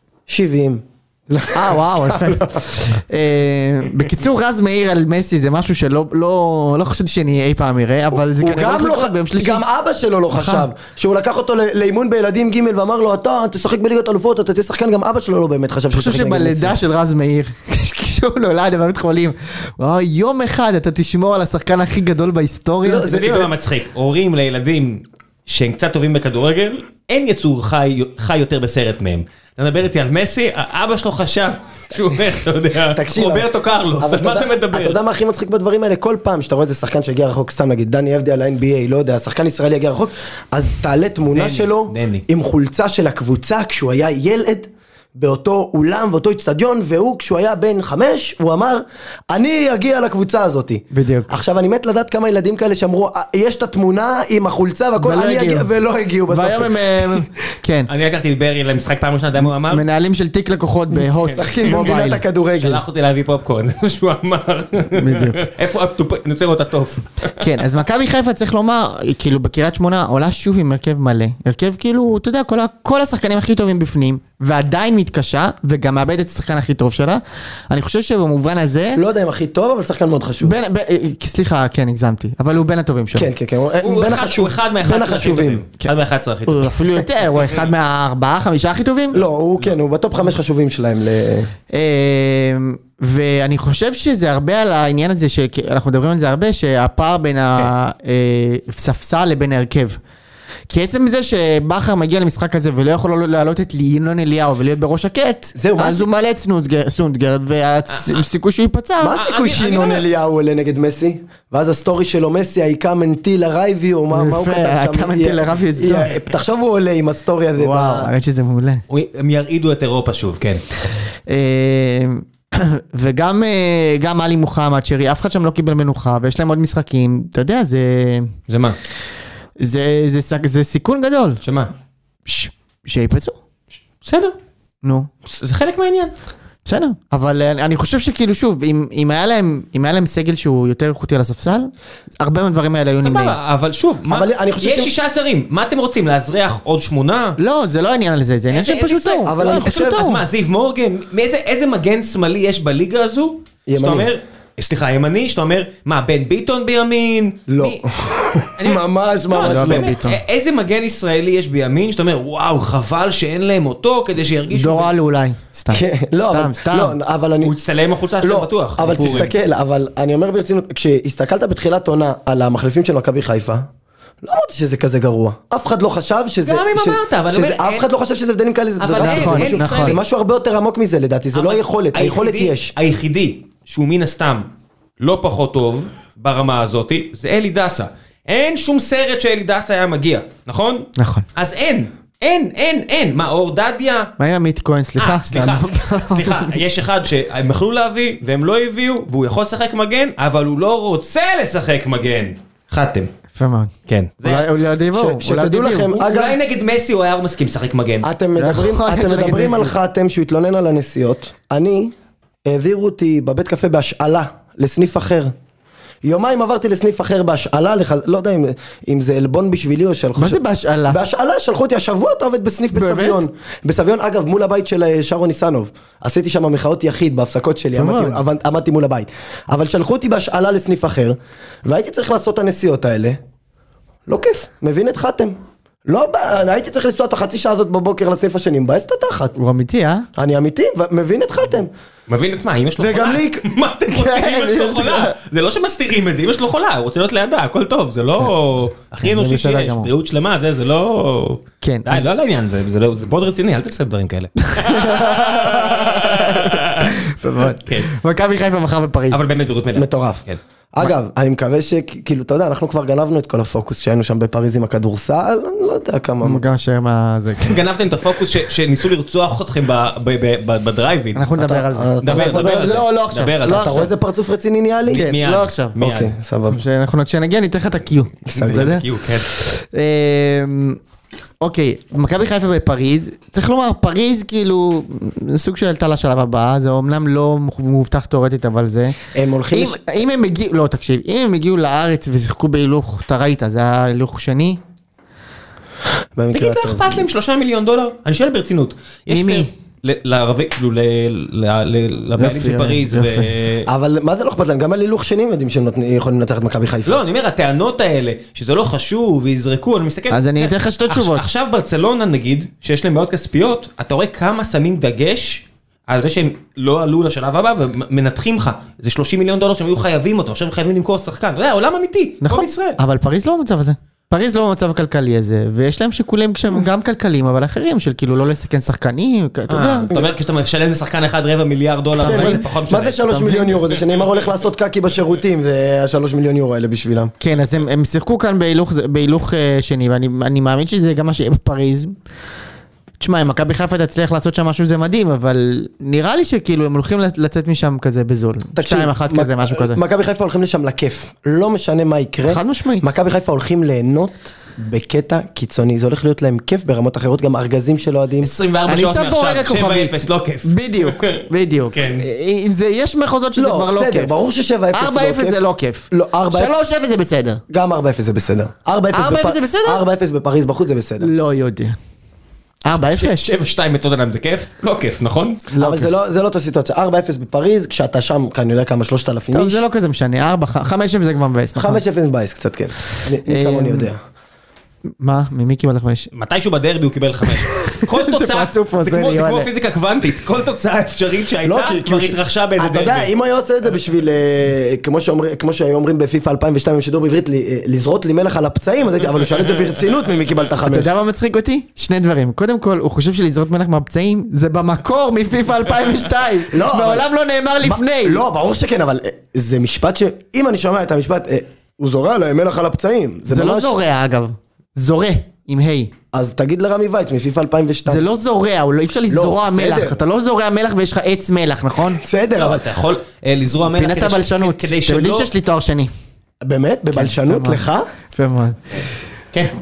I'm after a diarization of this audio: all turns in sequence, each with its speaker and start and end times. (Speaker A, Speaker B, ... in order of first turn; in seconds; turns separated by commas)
Speaker A: 0.3-2.6, Speaker B: 1.5-9.6, Speaker A: 8.3-16.8, Speaker B: 10.3-10.7, Speaker B: 15.9-23.2, Speaker A: 22.8-23.5, Speaker C: 22.9-35.0, Speaker A: 32.9-33.5, Speaker A: 34.0-57.2, Speaker C: 41.3-42.2, Speaker B: 50.9-51.4, Speaker B: 55.0-55.7, Speaker B: 56.3-57.9, Speaker C: 57.9-59.8, Speaker B: 59.6-62.2, Speaker A: 60.9-62.8, Speaker C: 61.1-61.8, Speaker C: 62.5-67.4, Speaker B: 64.9-65.4, Speaker B: 67.4-79.0, Speaker A: 78.9-80.6, Speaker B: 80.4-83.3, Speaker A: 83.1-85.6, Speaker C: 83.8-86.8, Speaker B: 86.5-89.2, Speaker A: 89.1-91.5, Speaker B: 91.7-100.0, Speaker B: 100.7-109.2, Speaker A: 105.5-106.1, Speaker C: 107.9-108.2, Speaker A: 109.0-118.1, Speaker C: 109.1-110.1, Speaker B: 114.1-116.1, Speaker B: 117.6-118.8, Speaker C: 118.9-120.6, Speaker B: 120.9-128.3, Speaker C: 128.5-128.8, Speaker B: 129.6-131.4, Speaker C: 131.4-131.7, Speaker B: 132.2-133.3, Speaker C: 134.0-134.3, Speaker B: 134.8-135.1, Speaker C: 135.2-136.1, Speaker B: 136.7-143.4, Speaker C: 143.0-147.4, Speaker A: 144.1-144.9, Speaker B: 147.4-150.2, Speaker C: 148.5-157.8, Speaker A: 149.2-150.1, Speaker A: 153.7-154.1, Speaker A: 157.5-159.9, Speaker C: 158.6-164.9, Speaker B: 159.4-160.2, Speaker B: 164.5-166.9, Speaker A: 165.7-167.5, Speaker C: 167.4-169.3, Speaker A: 168.2-173.7, Speaker B: 168.9-169.2, Speaker A: 174.2-182.7, Speaker C: 176.4-177.9, Speaker C: 178.8-180.0, Speaker B: 178.9-180.0, Speaker C: 181.3-184.5, Speaker C: 185.0-194.1, Speaker B: 191.0-191.2, Speaker B: 194.2-196.6, Speaker C: 195.0-203.1, Speaker B: 203.3-203.7, Speaker C: 203.9-204.5, Speaker B: 204.2-206.0, Speaker A: 204.9-206.4, Speaker C: 205.9-208.1, Speaker A: 208.0-211.9, Speaker B: 208.4-209.8, Speaker A: 212.4-215.3, Speaker A: 216.0-233.2, Speaker B: 220.2-221.0, Speaker B: 222.7-223.2, Speaker B: 227.7-228.2, Speaker A: 234.1-235.3, Speaker A: 235.8-239.3, Speaker B: 239.4-240.1, Speaker A: 240.2-241.7, Speaker C: 242.1-257.0, Speaker A: 242.8-243.4, Speaker B: 243.9-245.2, Speaker B: 249.0-249.9, Speaker B: 251.6-252.1, Speaker B: 254.4-259.2, Speaker C: 257.5-257.9, Speaker C: 259.1-260.4, Speaker A: 259.7-266.4, Speaker B: 266.2-267.6, Speaker C: 267.4-271.3, Speaker B: 271.1-273.9, Speaker A: 271.4-272.8, Speaker C: 272.0-273.9, Speaker A: 273.4-275.1, Speaker C: 274.9-276.1, Speaker B: 274.9-275.8, Speaker A: 275.8-276.6, Speaker B: 276.5-280.8, Speaker A: 278.3-278.7, Speaker C: 278.3-279.3, Speaker B: 281.4-289.0, Speaker A: 289.1-289.8, Speaker B: 289.5-294.6, Speaker A: 296.2-297.0, Speaker C: 296.3-303.7, Speaker B: 299.1-299.5, Speaker B: 302.2-303.3, Speaker A: 303.6-307.0, Speaker C: 306.9-322.8, Speaker B: 310.1-311.2, Speaker B: 322.2-329.9, Speaker C: 329.5-333.1, Speaker B: 332.0-332.5, Speaker A: 332.0-337.1, Speaker B: 333.0-333.6, Speaker B: 337.2-341.9, Speaker B: 343.0-349.8, Speaker A: 348.6-358.3, Speaker B: 352.3-352.9, Speaker C: 358.2-362.1, Speaker B: 358.7-364.1, Speaker A: 363.3-366.5, Speaker B: 364.7-367.4, Speaker A: 367.5-371.1, Speaker B: 368.9-369.8, Speaker B: 371.0-371.8, Speaker B: 372.6-373.3, Speaker C: 372.8-375.4, Speaker B: 375.5-375.9, Speaker A: 375.6-379.6, Speaker B: 379.3-381.8, Speaker A: 381.6-384.0, Speaker B: 383.2-383.9, Speaker B: 385.0-386.1, Speaker C: 386.1-393.1, Speaker B: 387.3-389.5, Speaker A: 391.4-400.9, Speaker B: 400.6-408.2, Speaker A: 406.5-407.1, Speaker A: 407.6-413.8, Speaker B: 413.3-415.9, Speaker A: 416.1-418.0, Speaker B: 417.9-422.0, Speaker A: 419.1-420.0, Speaker A: 422.0-422.7, Speaker C: 422.4-425.3, Speaker B: 423.7-425.9, Speaker A: 426.4-427.9, Speaker B: 426.9-428.6